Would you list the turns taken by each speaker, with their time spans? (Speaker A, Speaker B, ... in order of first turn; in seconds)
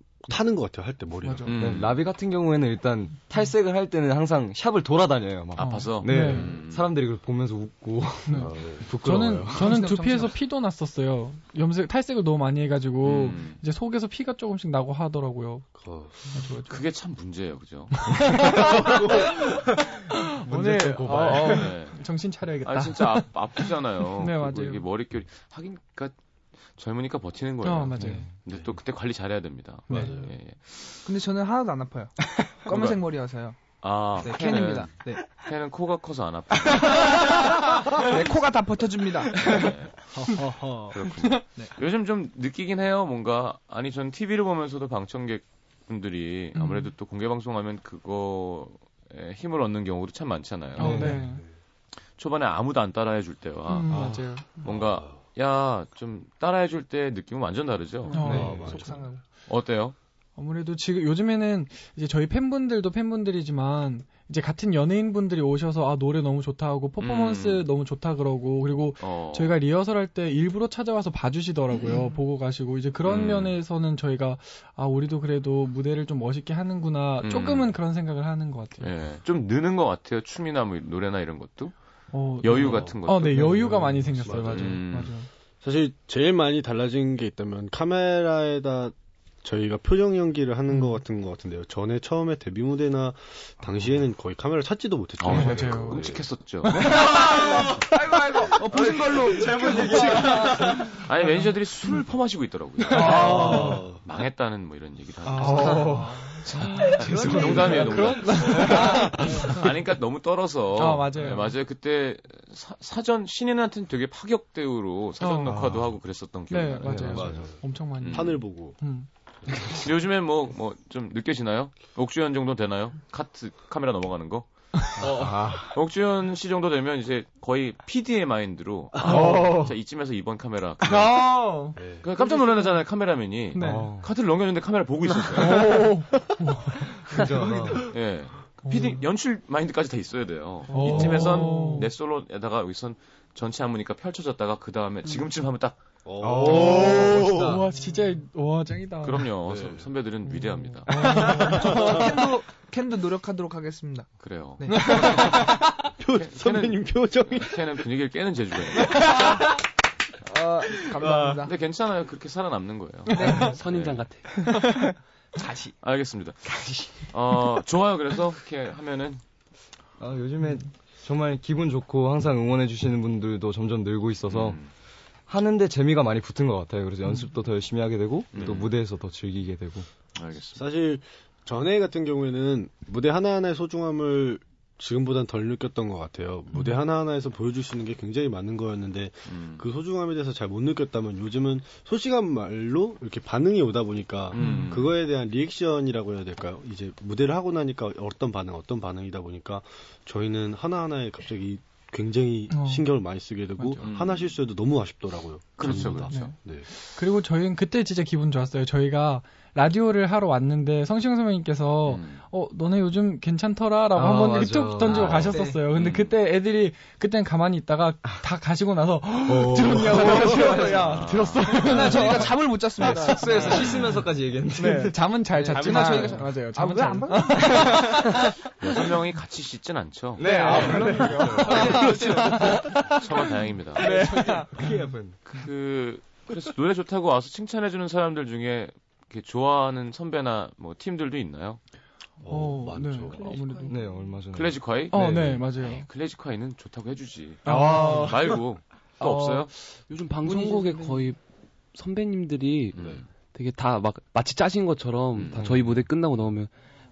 Speaker A: 0.2-1.9, 8.3-9.4, 15.7-16.2, 18.4-19.8, 20.5-21.7, 29.9-30.3, 40.1-41.0, 51.1-51.5, 54.6-55.2, 58.2-59.0, 82.6-84.8, 85.6-96.2, 103.1-104.0, 117.1-118.8, 131.8-132.1, 146.0-147.6, 149.4-149.9, 151.0-152.1, 155.0-157.8, 160.9-161.4, 180.5-206.7, 242.2-243.4
Speaker B: 1.2-1.5, 5.6-6.5, 8.3-15.7, 16.3-16.8, 18.0-24.8, 27.6-28.2, 29.9-30.1, 46.5-46.9, 50.8-51.4, 53.7-54.5, 58.1-58.6, 60.4-78.9, 82.1-85.3, 90.7-91.0, 95.3-96.1, 96.6-97.0, 103.0-103.7, 105.4-109.7, 110.8-111.5, 115.2-115.6, 116.5-119.1, 129.0-129.6, 130.8-132.4, 133.5-133.9, 135.3-136.8, 138.6-139.0, 140.7-141.9, 146.4-149.3, 150.9-152.1, 154.7-155.6, 194.4-194.7, 202.5-202.9, 203.6-203.8, 206.1-206.3, 206.9-224.0, 224.5-228.3, 230.2-234.7, 242.3-243.8, 244.9-245.9, 247.4-248.3
Speaker C: 1.4-2.0, 5.6-6.9, 13.0-13.6, 16.7-18.6, 21.3-22.0, 22.6-26.1, 26.7-31.1, 32.6-33.0, 33.8-38.1, 39.3-51.1, 52.1-58.2, 59.5-60.0, 67.0-67.7, 69.0-69.6, 73.0-73.6, 77.2-77.8, 78.8-81.7, 82.4-83.7, 84.2-85.1, 95.2-96.9, 100.9-117.3, 118.0-118.4, 119.5-124.5, 125.0-131.3, 132.0-135.8, 137.8-145.8, 149.0-150.9, 154.2-155.1, 156.1-159.2, 161.4-164.0, 165.8-169.2, 174.3-174.7, 178.3-178.7, 180.1-180.6, 189.3-189.6, 194.3-194.9, 203.8-204.3, 205.6-206.2, 211.8-212.2, 215.7-216.2, 220.2-222.3, 228.6-230.2, 231.7-233.9, 235.2-241.6, 244.3-249.5, 252.7-253.1, 255.1-255.7
Speaker D: 1.5-9.8, 27.9-28.3, 50.8-51.3, 53.9-54.2, 58.2-58.9, 96.9-97.6, 98.2-100.9, 103.3-103.9, 105.3-106.4, 107.2-109.3, 115.5-115.9, 116.8-117.5, 125.0-125.8, 129.0-129.7, 133.5-134.1, 136.9-137.9, 140.8-141.5, 146.2-147.7, 150.9-151.4, 166.6-166.9, 170.0-174.6, 175.3-179.9, 213.9-215.5, 219.2-220.8, 221.9-226.2, 227.3-227.7, 230.1-232.4, 233.8-235.2, 243.7-245.4, 247.4-248.4
Speaker E: 9.6-10.4, 31.0-33.6, 34.2-35.3, 36.6-39.5, 58.1-59.2, 97.0-100.9, 102.9-103.8, 105.3-109.7, 140.8-141.8, 150.9-155.1, 159.0-159.6, 160.2-161.5, 163.1-163.6, 165.3-165.7, 214.8-215.6, 220.2-220.7, 221.5-224.0, 225.3-228.3, 230.2-232.8, 233.8-234.7, 243.0-244.2, 250.2-251.1
Speaker F: 163.2-164.4, 249.0-251.2, 251.7-252.8, 253.3-256.5